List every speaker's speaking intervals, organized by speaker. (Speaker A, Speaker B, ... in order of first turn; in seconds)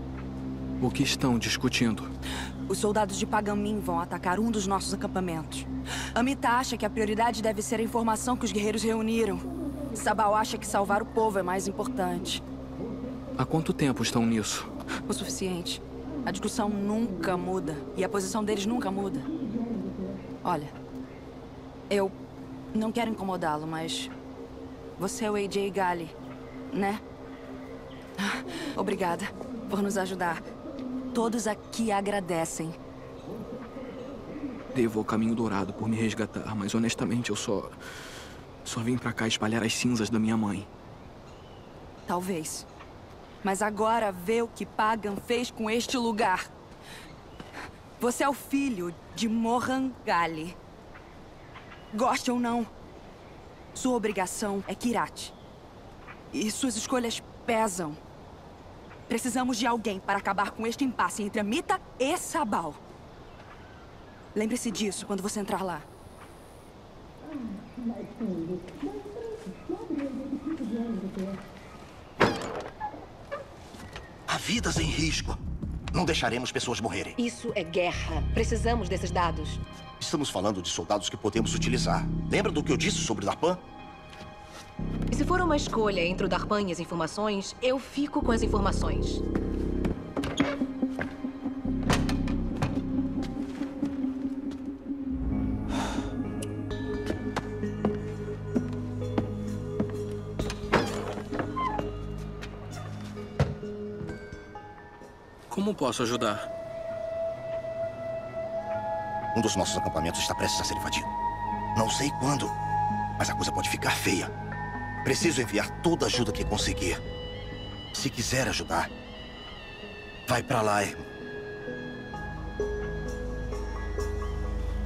Speaker A: 0.8-2.1, 13.4-14.7, 34.7-37.8, 38.6-40.7, 105.5-106.5
Speaker B: 2.7-12.4, 15.1-19.3, 20.4-20.7, 22.7-24.1, 25.0-26.1, 26.7-27.0, 28.2-30.4, 31.1-32.8, 42.1-42.7, 43.4-46.5, 48.0-50.5, 51.9-52.7, 53.8-55.4, 56.3-58.0, 59.1-62.8, 64.3-65.8
Speaker C: 74.3-75.4, 75.9-77.2, 80.0-83.6, 109.3-111.1, 111.8-112.5, 113.2-114.3, 115.0-117.0, 117.9-118.9, 120.3-121.1
Speaker D: 77.2-79.6, 85.1-89.2